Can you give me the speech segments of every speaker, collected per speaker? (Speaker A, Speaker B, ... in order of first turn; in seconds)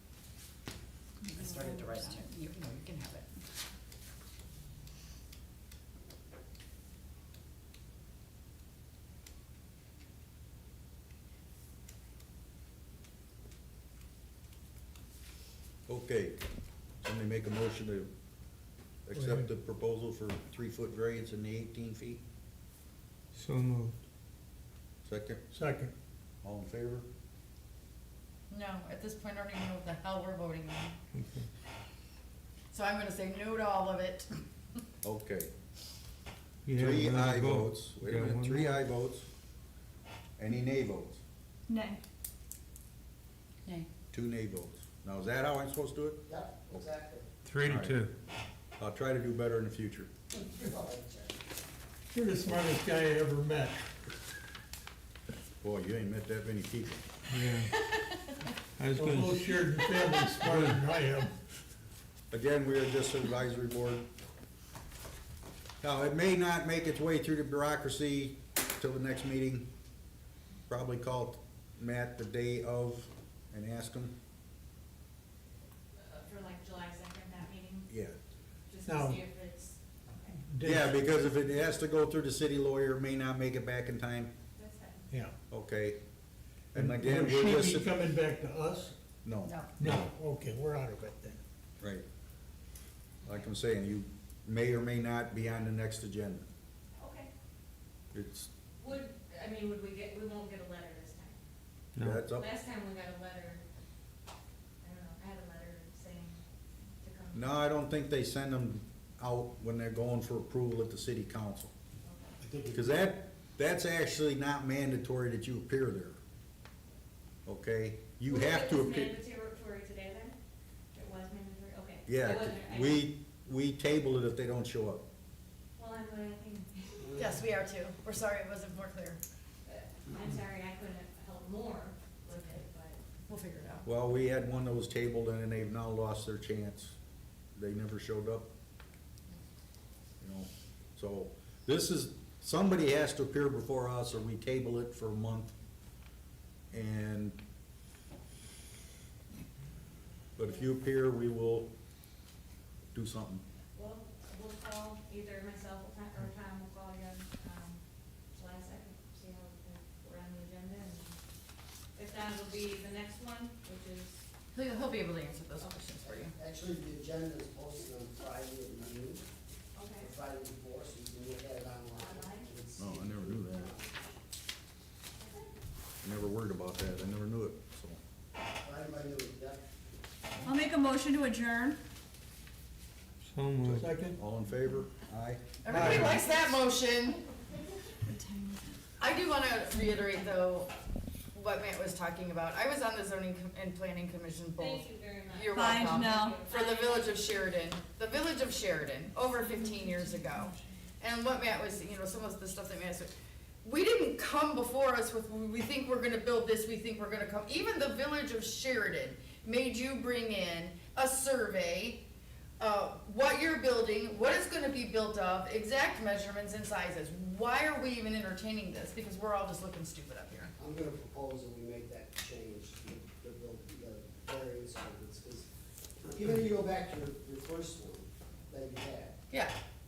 Speaker A: 1.2-2.3, 41.7-42.0, 180.4-181.8, 188.1-188.8, 195.5-196.4, 199.4-200.6
Speaker B: 1.3-3.4, 28.5-30.9, 32.7-34.4, 89.5-89.8, 127.2-129.2, 133.3-133.9, 164.5-166.3, 185.6-187.2, 189.0-190.7, 191.3-203.1, 203.6-212.0, 212.6-220.5
Speaker C: 15.9-16.4, 17.0-18.1, 19.1-22.2, 25.1-25.4, 26.4-27.1, 35.0-35.5, 36.8-39.3, 40.4-41.2, 44.1-46.9, 47.6-48.0, 48.8-50.1, 55.6-57.0, 62.3-64.1, 65.8-69.7, 70.7-74.1, 77.9-78.2, 80.6-84.3, 85.5-86.0, 86.7-87.9, 89.2-90.1, 91.8-92.0, 93.2-96.5, 98.1-98.5, 102.0-102.5, 107.3-111.7, 112.7-116.2, 117.5-119.1, 122.1-125.0, 133.9-136.9, 137.6-138.5, 140.2-145.6, 146.7-147.4, 150.4-151.7, 152.9-153.4, 172.8-173.7, 176.0-178.0, 183.6-186.2
Speaker D: 19.1-19.5, 25.5-25.9, 52.1-53.8, 58.9-61.3, 78.9-79.2, 80.5-81.0, 86.8-89.0, 89.8-91.4, 112.4-112.8, 183.7-184.2, 185.7-186.2
Speaker E: 23.4-24.0, 31.1-31.4, 36.7-38.8, 47.5-48.1, 57.3-57.7, 58.8-59.6, 60.5-60.8, 102.0-102.2, 183.3-183.8
Speaker F: 46.3-47.3, 50.3-51.3, 166.0-169.2, 170.0-174.0, 178.6-179.6, 220.6-225.5, 226.0-229.1
Speaker G: 76.0-77.9, 78.7-80.4, 84.6-85.1, 97.0-97.3, 98.8-101.4, 102.3-103.6, 104.8-106.4, 107.0-107.4, 112.0-112.4, 118.3-120.3, 120.9-123.1, 125.8-127.2, 129.7-133.0, 153.8-157.8, 158.3-161.2, 162.0-164.2, 169.8-170.1, 171.9-172.5, 194.6-197.4